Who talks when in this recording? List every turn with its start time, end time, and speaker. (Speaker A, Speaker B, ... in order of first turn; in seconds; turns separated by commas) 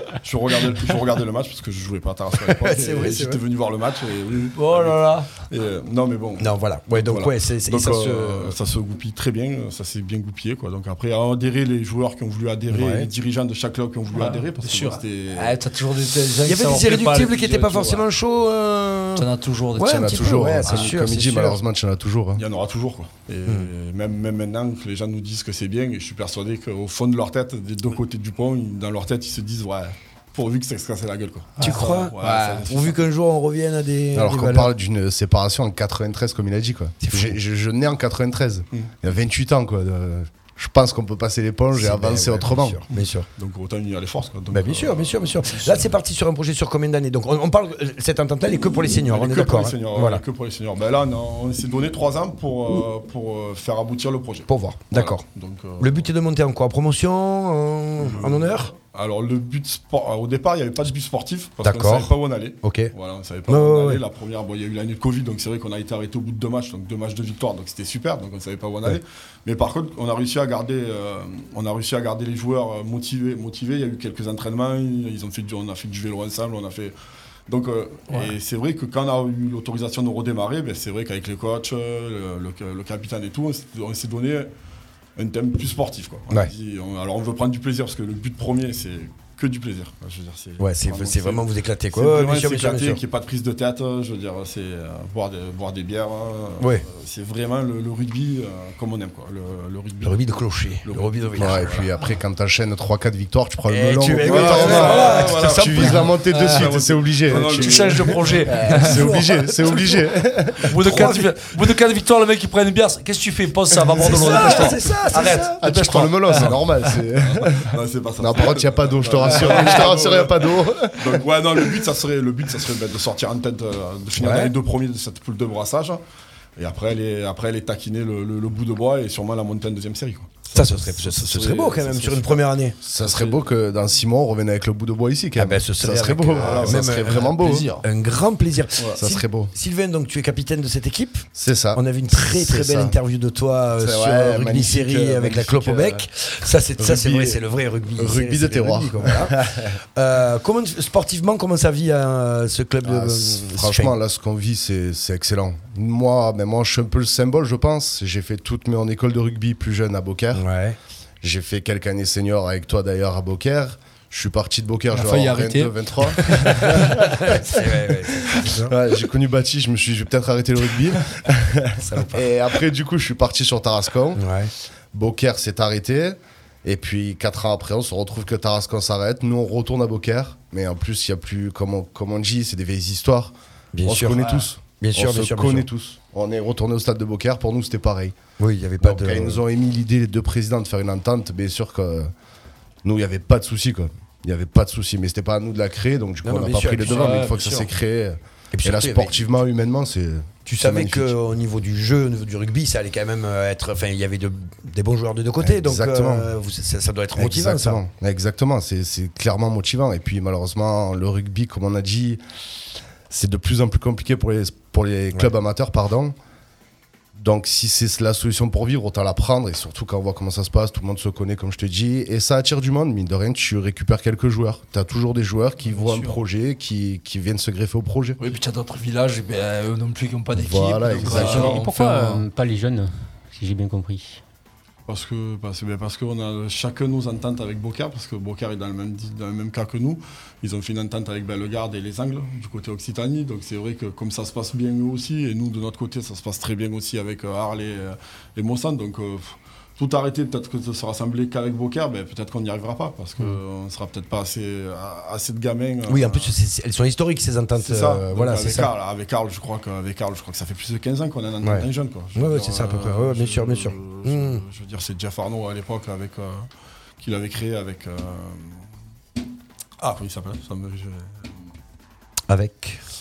Speaker A: 0.2-15.6, Speaker B: 2.5-3.4, Speaker C: 4.5-5.3, Speaker B: 6.4-8.6, Speaker B: 12.7-13.1, Speaker C: 14.1-18.0, Speaker B: 16.4-21.6, Speaker C: 19.1-20.9, Speaker D: 19.8-22.4, Speaker A: 22.4-33.0, Speaker C: 31.6-32.6, Speaker B: 31.6-34.7, Speaker D: 34.1-42.8, Speaker B: 37.0-37.4, Speaker B: 41.7-43.3, Speaker A: 42.9-45.9, Speaker B: 44.5-50.2, Speaker A: 49.0-56.1, Speaker B: 54.5-55.2, Speaker B: 55.8-58.7, Speaker A: 58.0-76.9, Speaker B: 61.6-62.9, Speaker B: 63.5-64.0, Speaker A: 77.5-84.5, Speaker A: 85.2-101.9, Speaker B: 90.6-93.0, Speaker B: 100.0-101.8, Speaker D: 101.4-107.9, Speaker B: 103.7-106.7, Speaker A: 104.2-108.5, Speaker C: 104.6-105.1, Speaker C: 107.5-109.0, Speaker D: 108.4-111.2, Speaker B: 108.5-110.2, Speaker C: 110.7-117.0, Speaker B: 110.7-111.3, Speaker B: 113.9-115.6, Speaker D: 114.1-121.2, Speaker A: 117.2-126.0, Speaker B: 124.1-124.5, Speaker A: 126.5-133.4, Speaker B: 130.5-132.8, Speaker D: 132.8-137.7, Speaker B: 135.3-153.9, Speaker A: 136.3-136.9, Speaker C: 137.2-137.8, Speaker D: 139.0-139.5, Speaker D: 141.3-143.0, Speaker D: 143.8-146.1, Speaker D: 146.8-147.4, Speaker D: 147.9-149.8, Speaker D: 152.8-160.4, Speaker B: 160.3-160.8, Speaker D: 161.2-174.2, Speaker C: 164.9-166.9, Speaker B: 167.2-168.7, Speaker B: 171.8-172.3, Speaker B: 174.2-174.5, Speaker D: 174.9-188.2, Speaker B: 183.7-184.2, Speaker C: 184.2-184.5, Speaker B: 184.8-185.7, Speaker B: 188.4-189.4, Speaker D: 188.8-192.1, Speaker D: 192.8-201.1, Speaker B: 196.2-197.7, Speaker C: 196.8-197.6, Speaker B: 198.5-199.2, Speaker B: 200.5-207.8, Speaker D: 205.4-206.3, Speaker D: 207.1-212.2, Speaker D: 213.1-216.1, Speaker D: 217.1-228.2, Speaker C: 225.7-226.2, Speaker C: 228.2-232.2, Speaker D: 230.3-231.6, Speaker A: 231.0-231.6, Speaker E: 231.1-234.2, Speaker A: 234.9-256.3, Speaker B: 255.9-258.7, Speaker A: 257.6-266.5, Speaker B: 261.4-264.4, Speaker A: 267.0-268.6, Speaker A: 269.8-271.5, Speaker B: 272.3-272.8